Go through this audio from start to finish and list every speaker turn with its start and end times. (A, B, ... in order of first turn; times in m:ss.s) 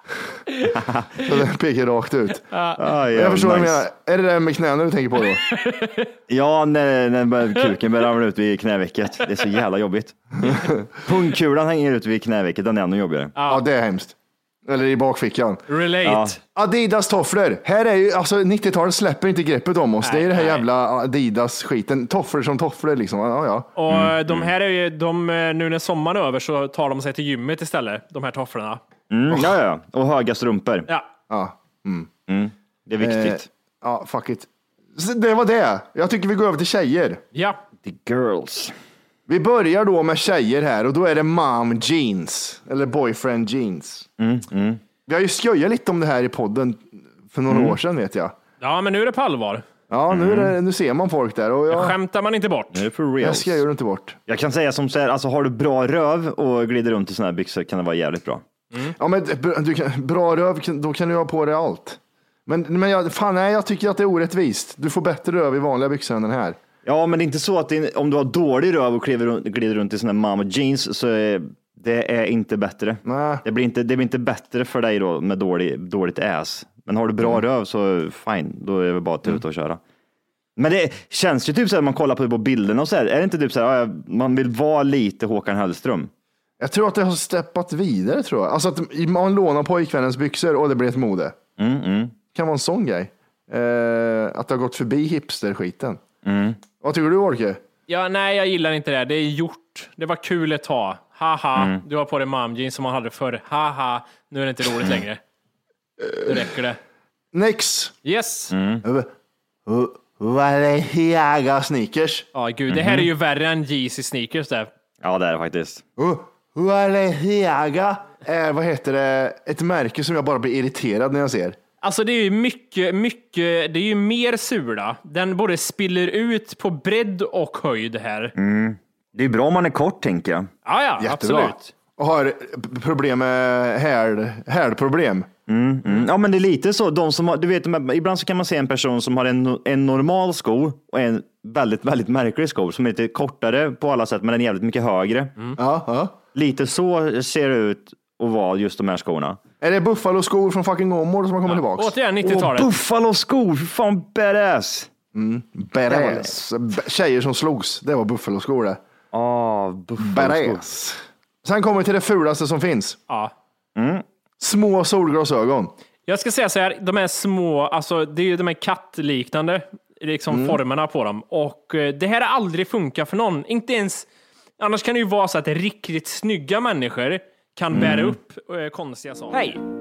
0:00.7-0:01.2 A
0:01.2-0:02.5 B
0:02.5-0:02.8 C
0:02.8-0:03.8 A
0:03.1-0:05.4 B
0:05.5-0:06.1 C
0:06.3-0:13.3 A
0:10.4-0:10.9 B
0:13.4-0:13.6 C
0:13.4-0:14.1 B
0:14.6-0:15.6 B
0:15.7-0:16.4 C
0:16.0-0:16.4 A
0:16.5-0:23.7 B
0:20.0-0:20.6 C
0:23.8-0:28.8 C
0:23.9-0:24.5 A
0:29.1-0:30.9 A
0:31.3-0:32.1 B
0:32.3-0:33.5 A
0:33.0-0:37.2 B
0:37.3-0:37.6 C
0:37.8-0:38.7 A
0:39.3-0:44.1 B
0:44.2-0:44.8 A
0:45.1-0:48.3 B
0:47.5-0:47.8 A
0:48.6-0:49.6 C
0:49.9-0:52.0 B
0:50.1-0:50.5 A
0:51.7-0:52.8 C
0:52.7-0:53.6 A
0:53.2-0:54.2 B
0:54.3-0:58.4 A
0:59.0-1:06.6 B
1:06.8-1:19.8 A
1:13.0-1:13.4 B
1:20.6-1:26.1 A
1:26.6-1:31.4 B
1:31.6-1:32.2 A
1:32.3-1:36.0 B
1:36.2-1:36.6 A
1:36.8-1:37.6 B
1:37.9-1:45.2 C
1:41.6-1:41.8 A
1:46.2-1:46.8 C
1:47.3-1:47.9 B
1:48.0-1:48.5 C
1:48.5-1:48.8 A
1:48.8-1:49.1 B
1:49.6-1:52.2 B
1:52.3-1:54.7 C
1:52.7-1:53.1 A
1:55.0-1:55.8 A
1:56.0-2:01.6 B
2:01.8-2:08.3 C
2:08.3-2:10.5 A
2:10.6-2:11.7 C
2:11.0-2:15.3 B
2:15.5-2:25.5 A
2:25.6-2:26.2 B
2:26.3-2:29.4 A
2:29.6-2:31.9 B
2:31.5-2:32.7 C
2:32.2-2:34.9 A
2:35.1-2:38.8 B
2:35.9-2:36.3 A
2:39.1-2:40.6 A
2:40.0-2:43.0 B
2:43.8-2:44.0 A
2:44.4-2:45.7 B
2:46.1-2:54.0 C
2:50.3-2:50.6 B
2:54.6-2:59.6 C
2:57.7-2:58.2 A